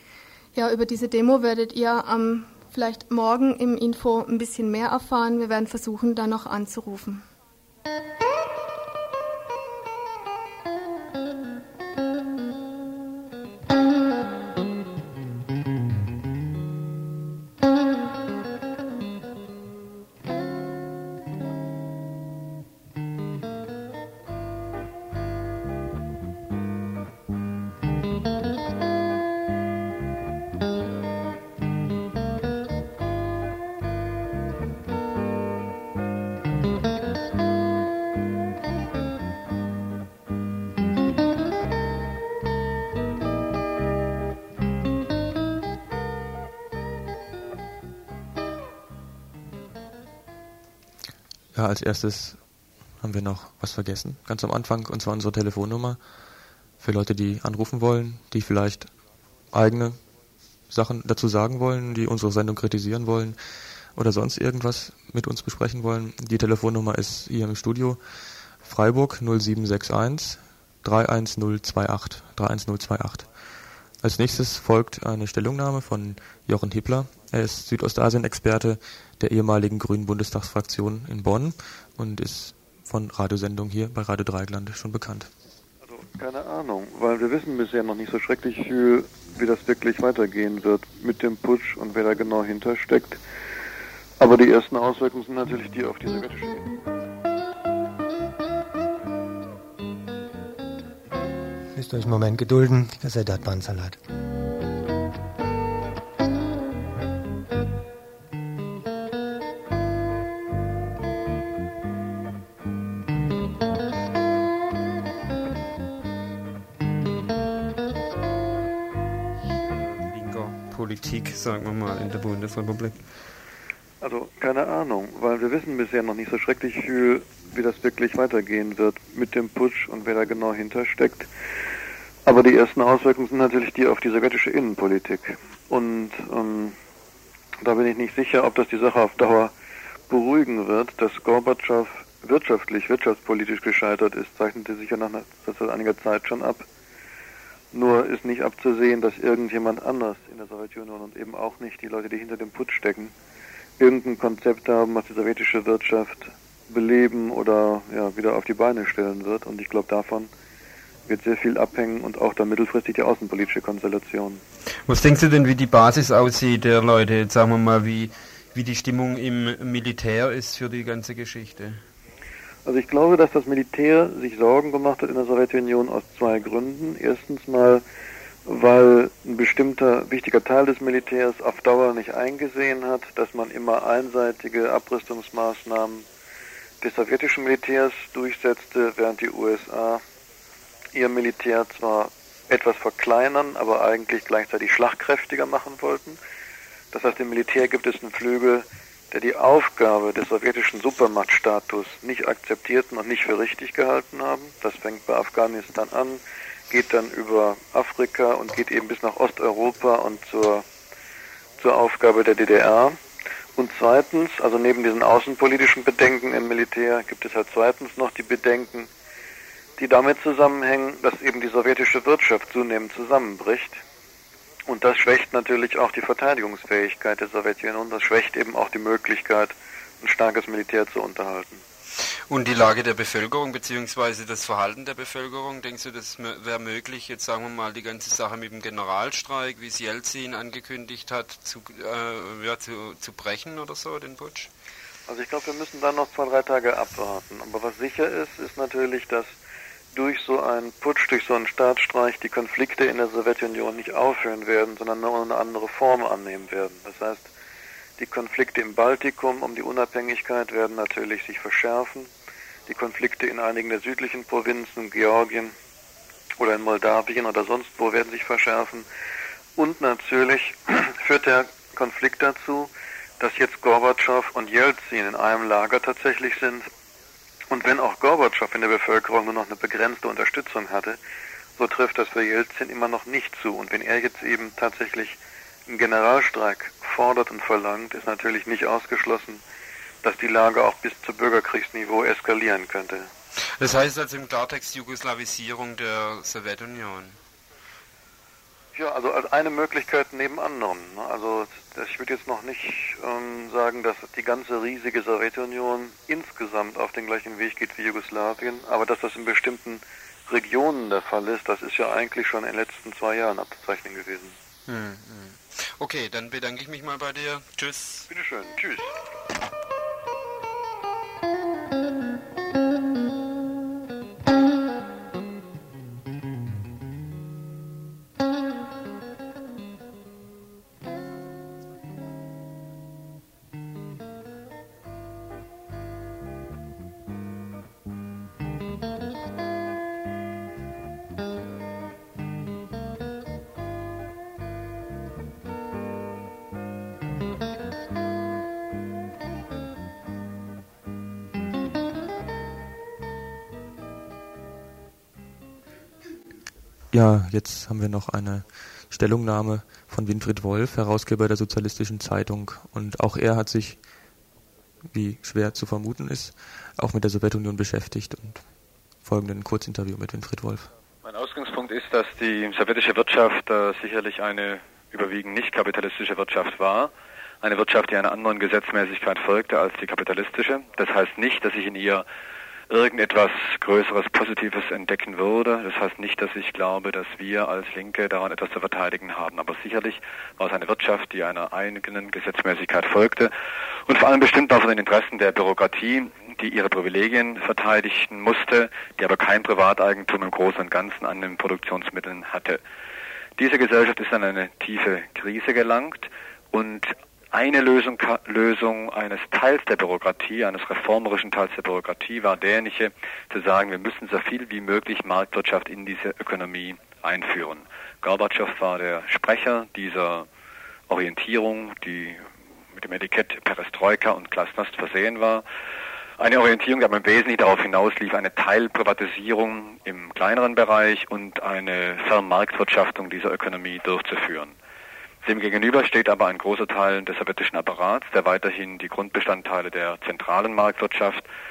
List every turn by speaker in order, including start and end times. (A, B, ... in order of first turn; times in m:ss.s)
0:00.5-0:07.2 A
0:51.5-0:52.4 B
0:53.0-0:56.0 B
0:56.8-0:58.9 B
0:59.5-1:00.0 B
1:00.7-1:03.4 B
1:04.0-1:08.0 B
1:08.6-1:13.2 B
1:14.0-1:25.3 B
1:25.8-1:33.2 C
1:34.2-1:36.7 C
1:41.7-1:44.0 D
1:59.5-2:03.0 E
2:04.0-2:11.3 C
2:12.2-2:16.8 C
2:17.6-2:19.5 C
2:20.1-2:26.6 C
2:27.7-2:33.1 C
2:33.8-2:40.3 C
2:41.1-2:44.4 C
2:44.9-2:51.8 E
2:52.6-2:57.8 C
2:58.4-3:06.0 C
3:06.8-3:10.0 C
3:10.9-3:16.2 C
3:16.9-3:30.6 C
3:31.6-3:33.0 C
3:33.6-3:38.9 C
3:39.8-3:43.8 C
3:44.7-3:51.6 C
3:52.3-4:04.5 E
4:05.1-4:09.3 C
4:09.9-4:17.3 C
4:18.0-4:22.1 C
4:22.7-4:25.5 C
4:26.4-4:28.8 C
4:29.6-4:36.7 C
4:37.5-4:41.0 C
4:41.6-4:49.4 C
4:50.0-4:53.1 C
4:53.5-4:57.2 E
4:58.7-5:14.4 C
5:14.7-5:18.1 E
5:18.1-5:18.9 C
5:56.9-6:03.8 B
6:04.9-6:08.4 B
6:09.0-6:10.7 B
6:11.0-6:22.0 F
6:22.7-6:33.3 F
6:33.9-6:42.6 F
6:43.4-7:00.3 F
7:00.9-7:02.2 F
7:02.7-7:05.4 F
7:06.2-7:14.5 F
7:15.2-7:21.2 F